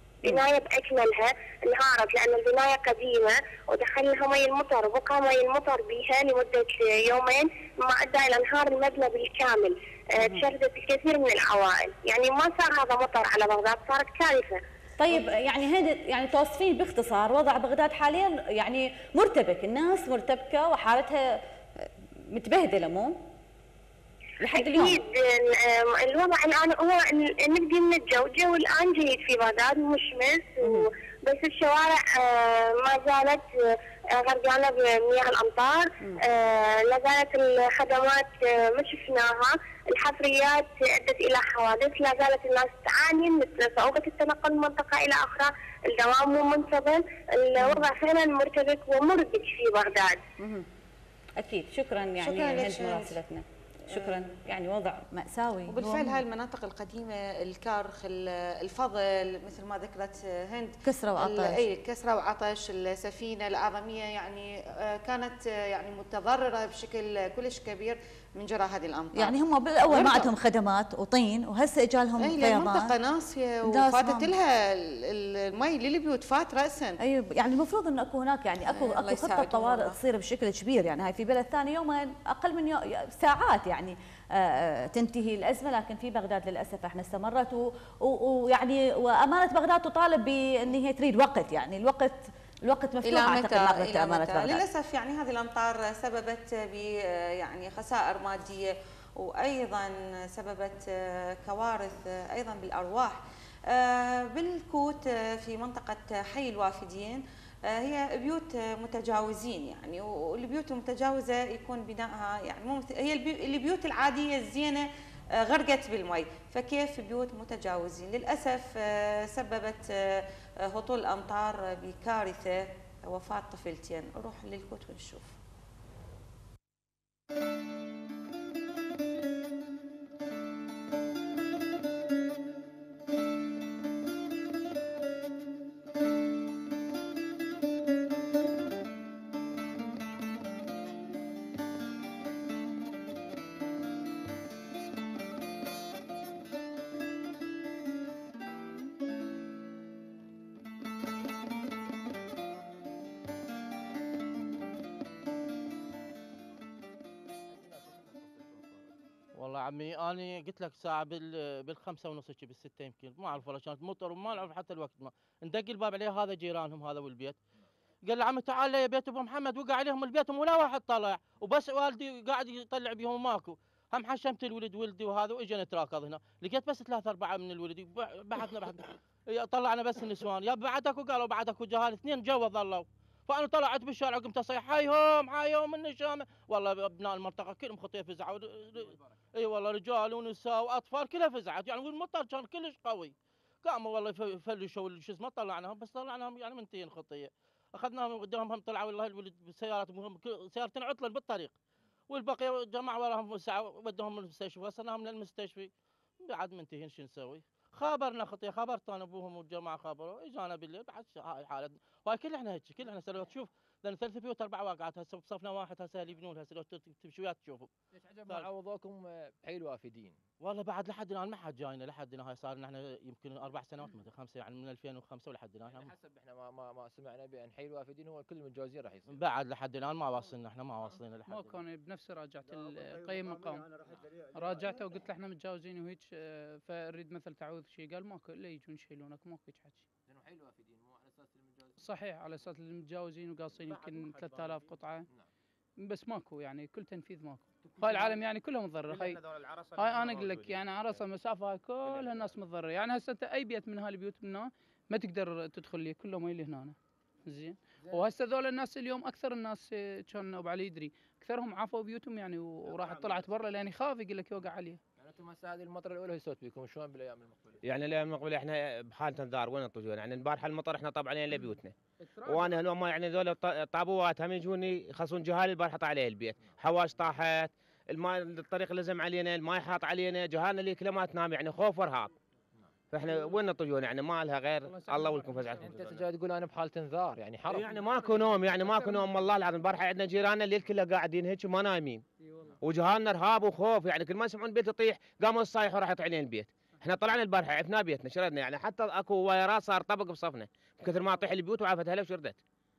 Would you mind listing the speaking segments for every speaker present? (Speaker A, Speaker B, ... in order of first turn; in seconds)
Speaker A: 0.2-14.6, 24.5-33.5, 34.1-50.2
Speaker B: 15.0-23.2, 24.4-25.0, 30.6-30.9, 50.4-50.6, 51.4-56.2, 60.8-61.6, 69.1-72.9, 73.7-74.3, 77.0-94.6
Speaker C: 52.2-53.2, 55.7-70.3, 72.2-77.0, 78.7-80.0, 93.0-103.2, 103.7-114.8, 115.4-125.3
Speaker D: 157.5-158.9, 188.7-189.1, 217.9-220.2, 225.6-229.2, 233.7-234.6, 240.1-241.9, 243.5-245.3, 247.6-248.3, 248.9-251.1, 251.8-252.3, 257.8-258.1, 262.7-263.4, 265.0-267.6, 272.1-272.6, 284.7-289.2, 292.3-292.5
Speaker E: 159.3-167.4, 168.0-201.5, 202.1-217.7, 220.4-225.9, 229.1-231.6
Speaker F: 231.2-233.7, 234.3-239.9, 241.8-245.1, 245.8-256.8, 257.3-264.8
Speaker G: 267.6-282.1, 282.9-285.8, 287.5-292.0, 292.6-302.4